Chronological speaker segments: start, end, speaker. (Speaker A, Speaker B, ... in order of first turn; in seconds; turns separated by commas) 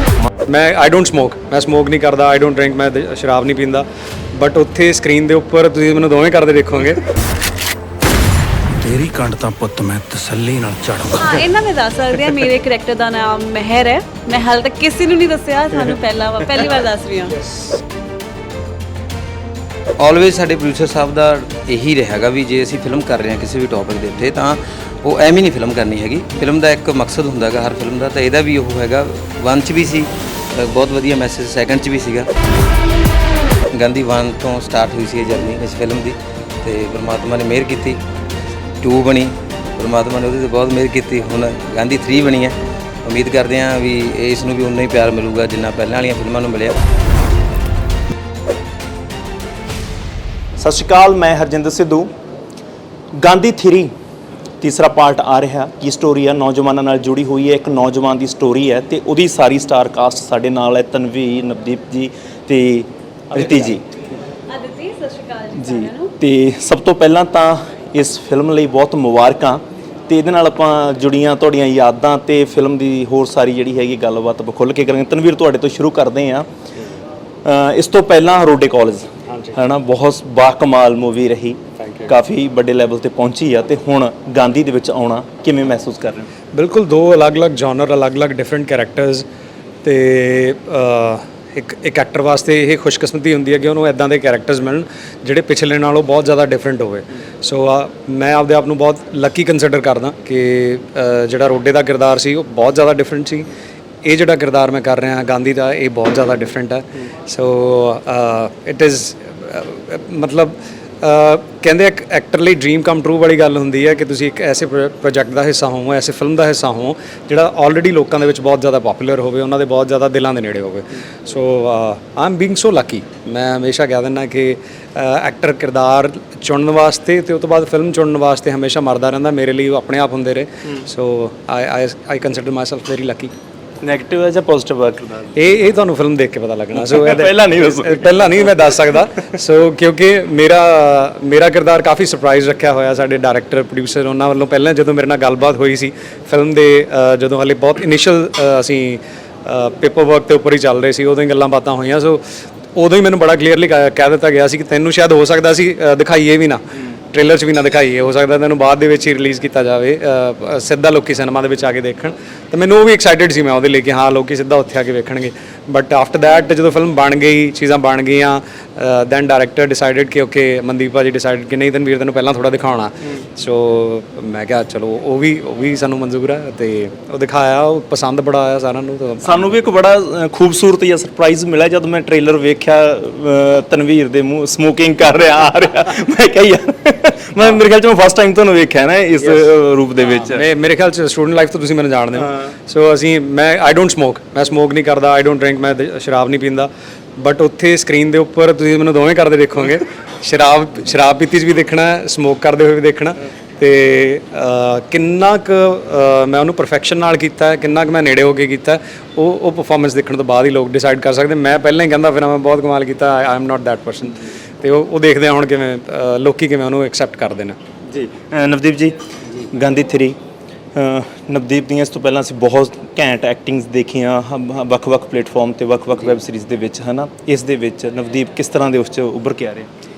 Speaker A: 0.5-7.0, Speaker B: 8.8-11.4, Speaker C: 11.1-17.4, Speaker D: 20.0-32.3, Speaker D: 33.7-38.0, Speaker D: 38.8-46.8, Speaker E: 50.6-52.1, Speaker E: 53.1-53.9, Speaker E: 54.6-63.8, Speaker C: 64.5-66.1, Speaker E: 65.6-76.5, Speaker E: 77.4-86.3, Speaker A: 81.8-82.1, Speaker A: 86.5-89.2, Speaker A: 89.8-103.5, Speaker A: 104.0-133.3, Speaker E: 133.8-135.3, Speaker A: 135.3-152.2, Speaker E: 136.7-138.0, Speaker A: 152.7-179.5, Speaker E: 179.2-190.4, Speaker A: 190.3-217.6, Speaker E: 217.9-220.2, Speaker E: 220.8-229.7